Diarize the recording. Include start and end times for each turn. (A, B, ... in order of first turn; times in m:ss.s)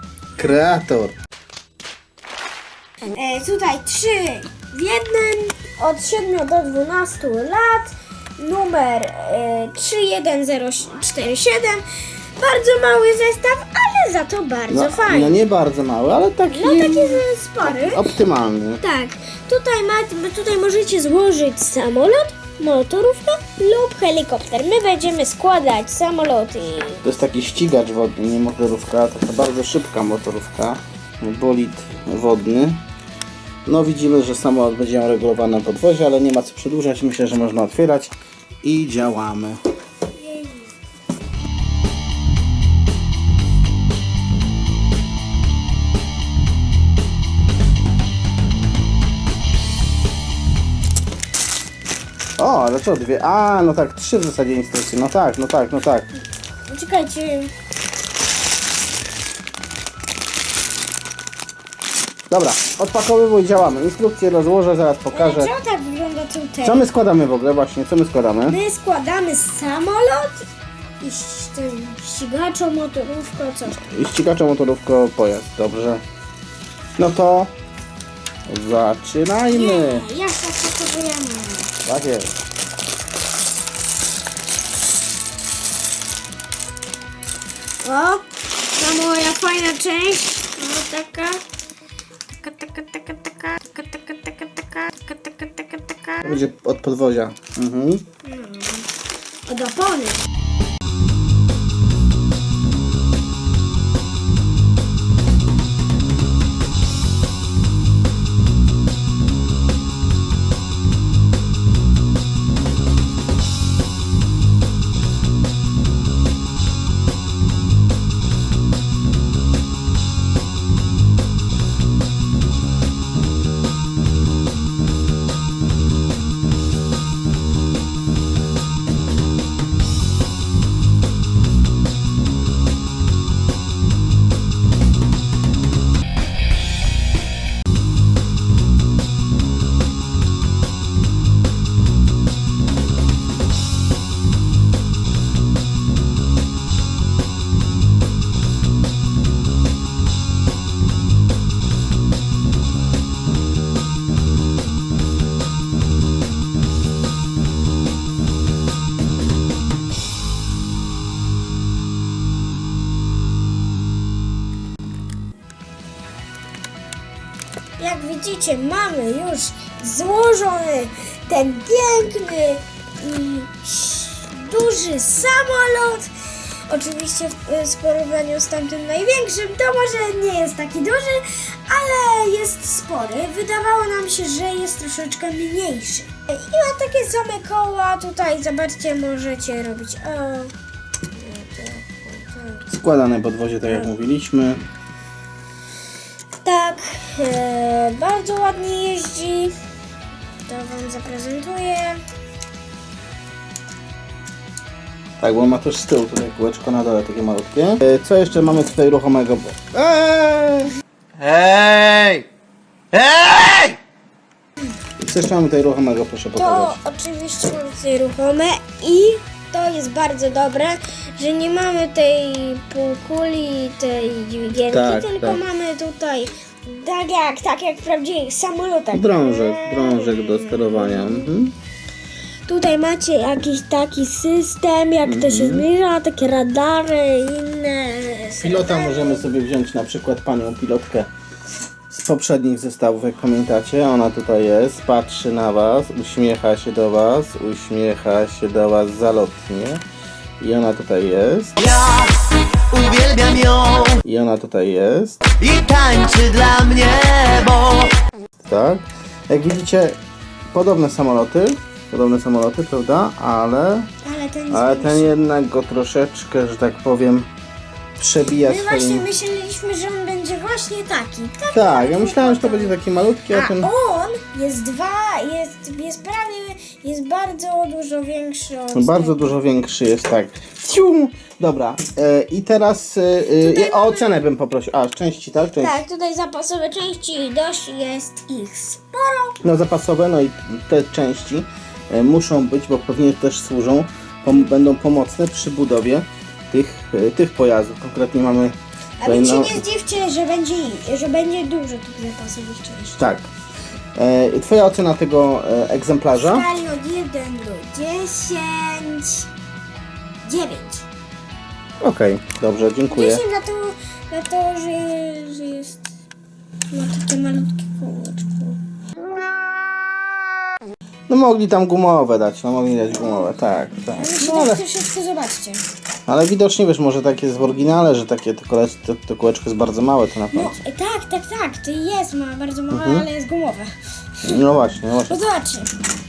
0:00.4-0:01.2 A
0:03.1-0:11.8 B
0:12.4-0:15.4 B
0:14.7-0:18.8 A
0:16.5-0:18.1 B
0:18.8-0:27.0 B
0:27.0-0:32.8 A
0:33.6-0:39.6 A
0:40.2-0:40.7 B
0:52.4-0:56.1 A
0:56.7-0:57.5 B
1:02.3-1:05.5 A
1:05.1-1:06.8 B
1:06.6-1:08.6 A
1:08.5-1:10.4 B
1:11.0-1:13.8 B
1:13.7-1:16.0 A
1:17.0-1:17.5 A
1:18.5-1:20.0 A
1:19.5-1:21.7 B
1:21.8-1:22.3 A
1:27.8-1:31.4 B
1:32.4-1:36.4 B
1:36.2-1:38.0 A
1:38.2-1:38.9 B
1:39.5-1:40.2 B
2:47.8-3:10.5 B
3:11.1-3:12.8 B
3:12.8-3:14.6 A
3:13.6-3:13.9 B
3:16.4-3:19.6 B
3:20.4-3:22.0 B
3:25.2-3:30.7 A
3:31.2-3:32.2 C
3:32.9-3:33.8 C
3:35.0-3:36.8 A
3:36.4-3:51.3 B
3:44.7-3:45.4 A
3:48.9-3:51.6 A
3:52.5-3:59.3 B
3:55.0-3:55.7 A
3:58.4-4:01.1 A
4:01.9-4:09.8 A
4:10.4-4:11.7 A
4:11.6-4:12.1 C
4:12.7-4:14.0 C
4:14.0-4:15.3 A
4:15.4-4:17.9 C
4:18.4-4:20.0 A
4:20.5-4:23.9 A
4:24.0-4:25.1 B
4:24.5-4:27.3 A
4:28.0-4:29.1 A
4:28.4-4:32.8 B
4:31.5-4:33.7 A
4:33.3-4:39.4 B
4:38.7-4:45.8 A
4:43.4-4:44.1 B
4:45.6-4:49.4 B
4:49.4-4:59.6 A
4:59.0-5:03.0 B
5:03.0-5:03.3 A
5:04.0-5:06.5 A
5:06.2-5:09.3 B
5:10.2-5:10.9 B
5:11.8-5:13.2 A
5:12.9-5:15.9 B
5:16.7-5:18.6 B
5:21.1-5:24.6 A
5:23.9-5:25.6 B
5:26.1-5:30.6 A
5:30.3-5:33.7 B
5:32.7-5:33.1 A
5:34.2-5:35.2 A
5:35.1-5:35.7 B